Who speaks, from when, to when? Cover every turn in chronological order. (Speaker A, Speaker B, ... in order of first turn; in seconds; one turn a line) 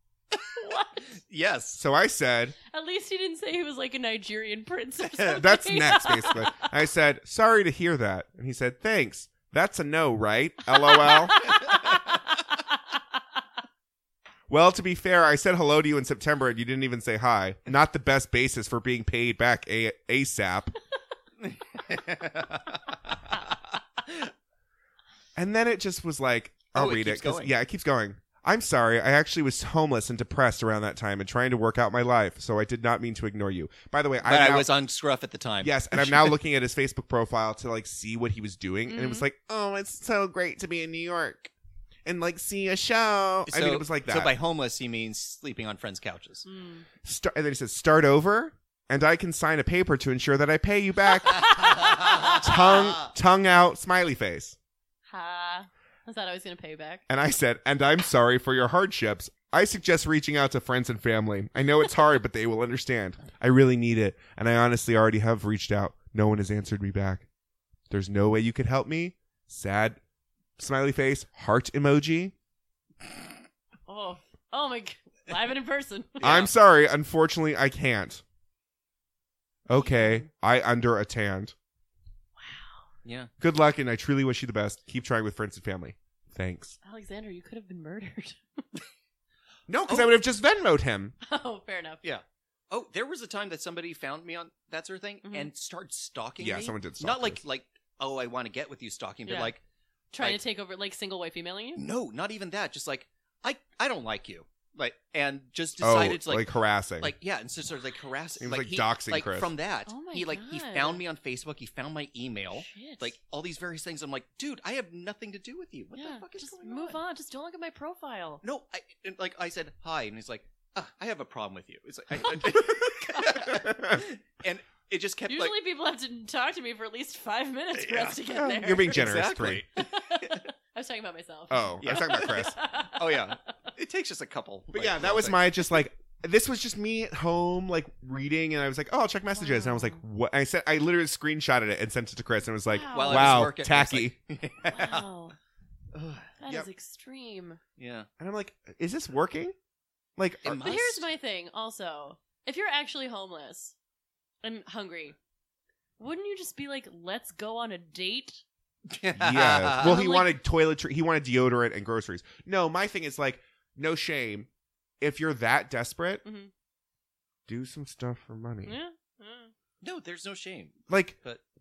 Speaker A: 0.3-0.6
Speaker B: 0.6-1.0
Speaker A: 1.1-1.8
Speaker C: 1.8-2.6
Speaker B: 2.7-6.7
Speaker A: 5.1-5.4
Speaker C: 5.3-11.6
Speaker B: 10.9-12.2
Speaker C: 14.5-20.7
Speaker A: 21.4-24.3
Speaker C: 25.4-34.7
Speaker A: 26.7-27.5
Speaker A: 34.2-36.4
Speaker C: 35.6-41.5
Speaker B: 38.9-39.3
Speaker C: 42.0-44.3
Speaker A: 43.5-46.5
Speaker B: 46.5-46.9
Speaker C: 47.0-54.6
Speaker A: 51.4-53.1
Speaker B: 51.8-52.4
Speaker B: 55.1-57.0
Speaker C: 57.1-67.3
Speaker C: 67.9-70.0
Speaker C: 70.6-72.3
Speaker B: 73.9-76.3
Speaker A: 76.2-76.5
Speaker C: 76.2-78.2
Speaker C: 79.7-81.5
Speaker B: 79.7-80.3
Speaker B: 82.4-82.8
Speaker A: 83.0-83.3
Speaker C: 83.4-86.8
Speaker B: 86.8-88.8
Speaker C: 89.7-91.2
Speaker A: 89.9-90.2
Speaker B: 91.2-92.0
Speaker A: 92.0-99.6
Speaker B: 95.2-95.5
Speaker C: 96.4-97.4
Speaker B: 99.2-99.5
Speaker B: 100.1-101.8
Speaker A: 101.8-106.5
Speaker C: 105.8-107.2
Speaker A: 107.0-117.0
Speaker C: 108.4-109.5
Speaker B: 109.9-111.0
Speaker B: 112.5-113.1
Speaker B: 116.0-118.4
Speaker A: 118.4-125.6
Speaker C: 122.8-124.1
Speaker B: 125.3-133.5
Speaker A: 127.8-128.2
Speaker C: 128.3-129.6
Speaker A: 128.9-130.5
Speaker C: 131.5-132.6
Speaker A: 131.8-135.5
Speaker C: 134.7-144.1
Speaker B: 139.3-140.0
Speaker B: 142.7-143.5
Speaker A: 142.9-145.1
Speaker B: 144.7-145.3
Speaker A: 145.9-146.3
Speaker B: 146.4-147.6
Speaker A: 147.8-148.1
Speaker C: 148.2-149.6
Speaker C: 150.2-150.6
Speaker A: 150.4-151.1
Speaker B: 150.6-153.8
Speaker B: 154.4-155.2
Speaker B: 156.0-158.4
Speaker A: 158.9-160.0
Speaker C: 159.2-164.5
Speaker B: 159.8-160.4
Speaker C: 165.0-166.2
Speaker B: 166.2-166.5
Speaker C: 167.5-168.8
Speaker B: 168.7-169.5
Speaker A: 169.8-171.4
Speaker C: 170.9-171.2